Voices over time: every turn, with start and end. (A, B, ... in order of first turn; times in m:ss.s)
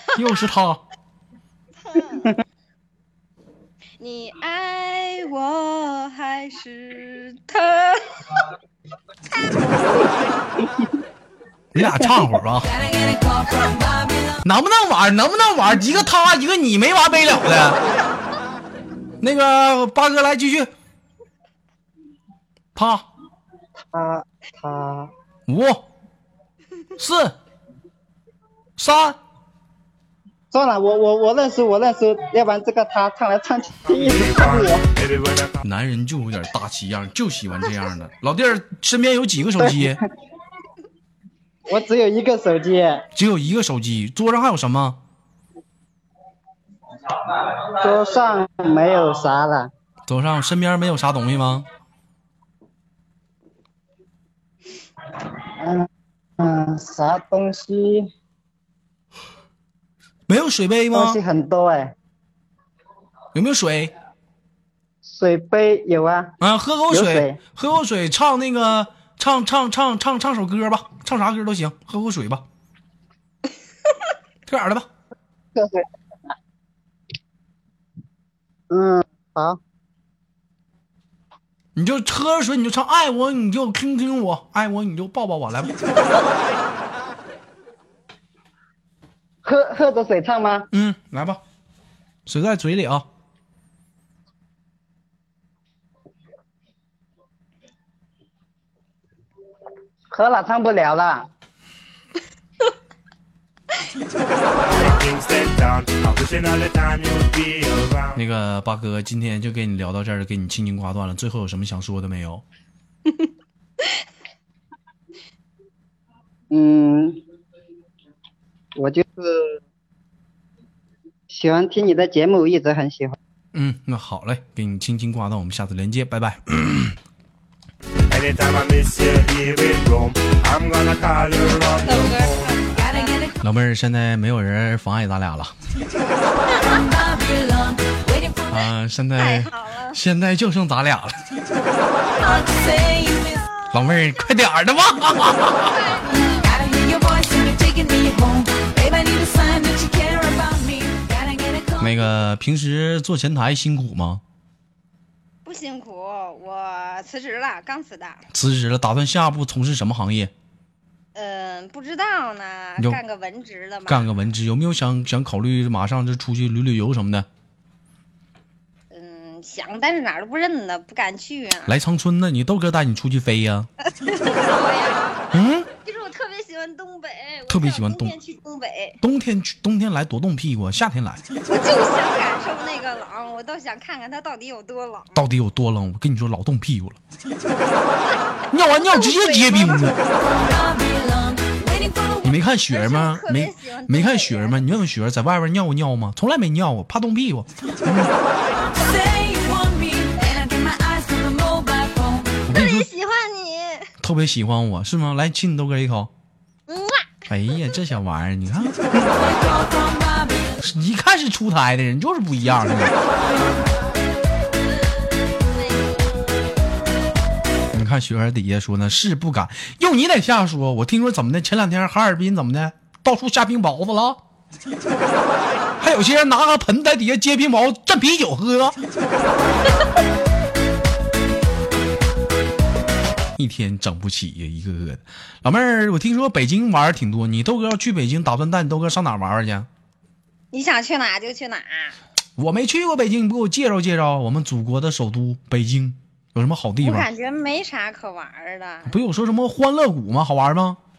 0:00.2-0:00.8 A
0:01.8-0:02.3 B
0:04.0-0:08.4 B
0:09.3-0:10.1 B
0:11.7-0:12.7 A
0:12.7-0:14.4 C
0:14.4-0:17.8 A
0:19.2-0:20.7 A
0:22.8-0:23.1 A
0:23.9-0:25.1 D
0:25.5-0:25.9 A
0:27.0-0:27.4 A
0:28.8-0:29.2 A
0:30.5-0:34.9 D
0:33.9-0:35.6 E
0:35.6-0:40.0 A
0:39.6-0:40.0 D
0:41.7-0:43.0 D
0:43.2-0:45.0 A
0:47.5-0:49.7 D
0:50.1-0:51.7 A
0:55.6-0:55.9 D
0:56.4-0:58.1 D
1:00.3-1:01.2 A
1:00.9-1:01.9 D
1:03.3-1:03.9 A
1:05.0-1:06.3 D
1:06.4-1:12.4 A
1:06.9-1:07.4 D
1:14.5-1:14.9 A
1:15.6-1:15.8 D
1:18.7-1:19.6 D
1:21.8-1:25.7 A
1:29.4-1:30.7 D
1:30.7-1:31.4 A
1:32.3-1:33.1 A
1:40.1-1:41.3 D
1:44.5-1:48.2 E
1:48.2-1:52.4 A
1:56.5-1:57.2 D
1:58.8-1:59.6 D
2:01.3-2:03.2 D
2:03.5-2:07.0 A
2:08.1-2:12.5 E
2:11.8-2:13.3 B
2:13.4-2:15.5 A
2:16.5-2:16.8 B
2:16.9-2:18.6 C
2:18.5-2:21.2 A
2:19.2-2:20.0 B
2:22.2-2:23.4 C
2:23.4-2:23.6 B
2:23.7-2:25.8 A
2:25.6-2:26.6 B
2:26.4-2:31.8 C
2:31.8-2:34.2 A
2:35.4-2:38.2 B
2:38.3-2:40.3 A
2:41.2-2:44.0 B
2:43.9-2:47.3 A
2:48.9-2:51.8 B
2:51.7-2:53.7 A
2:53.8-2:59.0 B
2:55.3-2:55.7 A
2:57.5-2:58.2 A
2:59.0-3:01.2 A
3:01.5-3:05.3 B
3:05.2-3:07.0 A
3:08.5-3:10.0 A
3:08.7-3:09.9 B
3:10.3-3:12.2 C
3:12.2-3:18.1 A
3:12.7-3:14.6 B
3:18.7-3:22.3 C
3:22.5-3:22.9 A
3:22.5-3:23.9 B
3:24.0-3:26.1 A
3:26.7-3:27.2 B
3:27.3-3:29.4 A
3:29.2-3:30.5 C
3:30.6-3:33.0 A
3:35.4-3:36.7 B
3:37.7-3:44.2 A
3:45.8-3:48.8 A
3:53.4-3:59.7 A
4:00.5-4:02.0 B
4:02.4-4:07.1 A
4:06.8-4:09.0 B
4:08.9-4:10.8 A